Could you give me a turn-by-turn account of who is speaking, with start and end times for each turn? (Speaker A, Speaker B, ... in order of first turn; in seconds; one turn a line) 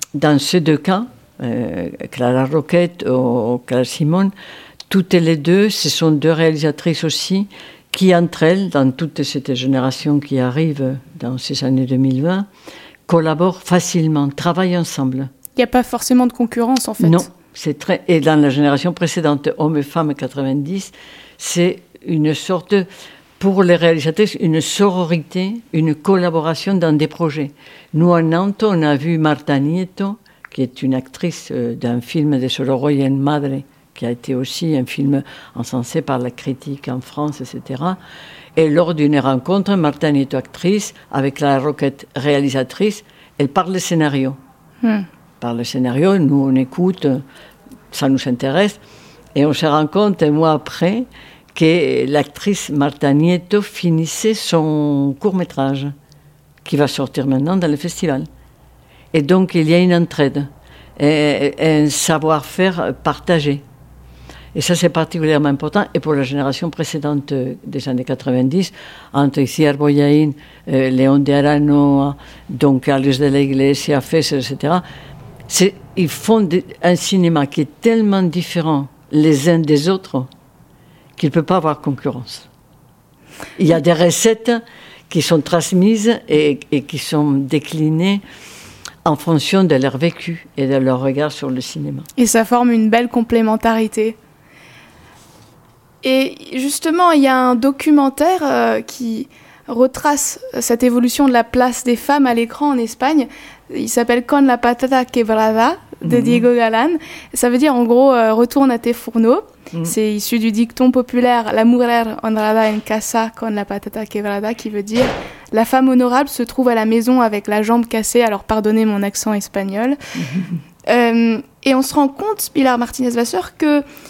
Speaker A: 0.2-4.3
Speaker A: 4.9-12.4
Speaker A: 13.1-15.3
Speaker B: 15.6-17.3
Speaker A: 17.0-22.9
Speaker A: 23.4-38.0
Speaker A: 38.6-44.4
Speaker A: 45.4-47.2
Speaker A: 47.9-48.8
Speaker A: 49.4-55.9
Speaker A: 56.6-58.3
Speaker A: 59.1-63.6
Speaker A: 64.5-74.8
Speaker A: 75.5-80.3
Speaker A: 81.2-82.5
Speaker A: 83.6-88.2
Speaker A: 89.0-92.1
Speaker B: 92.2-94.2
Speaker B: 96.0-120.0
Speaker A: 106.1-106.4
Speaker B: 120.9-123.8